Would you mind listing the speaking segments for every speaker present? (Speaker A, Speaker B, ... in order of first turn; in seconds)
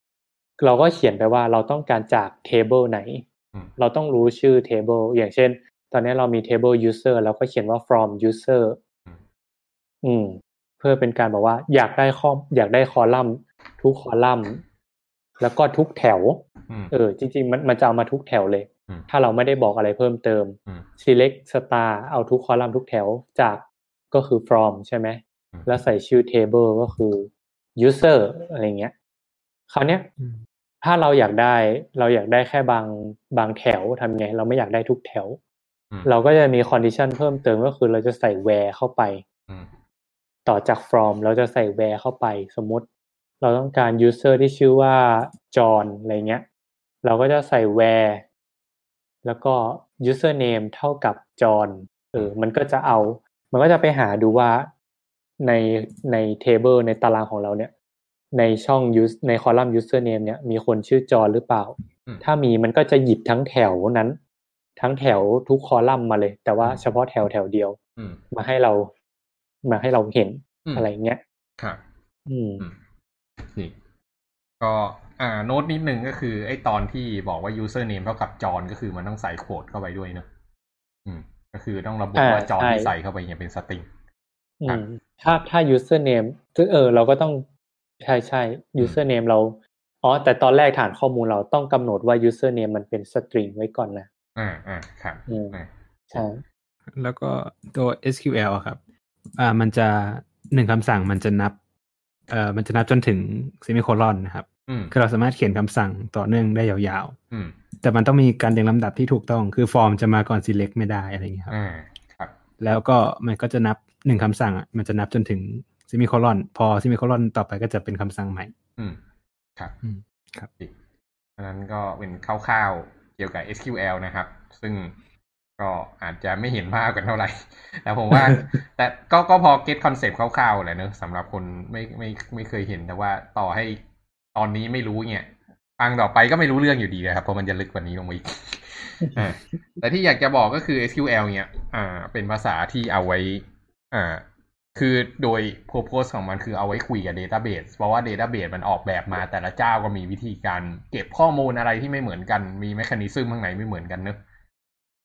Speaker A: 0.6-3.3, 3.8-8.8, 10.0-14.6, 15.4-28.9, 29.7-30.1, 30.8-35.4, 36.0-39.2, 40.5-42.9, 43.4-46.5, 47.0-48.2, 49.2-54.7, 55.4-57.7, 58.3-64.2, 64.8-67.8, 68.3-68.9, 69.6-71.2, 72.3-72.6, 82.2-82.9, 84.6-87.5, 88.0-94.1, 95.3-95.5, 96.1-96.4
Speaker B: 25.5-25.8, 73.5-73.7, 74.6-80.3, 81.1-83.9, 94.4-95.7, 104.7-104.9, 107.3-107.6, 111.5-112.3, 121.4-124.9, 125.6-133.8, 134.3-144.2, 144.8-154.2
Speaker C: 97.0-98.8, 99.4-101.6, 102.3-107.2, 107.8-111.5, 112.6-118.5, 119.8-120.5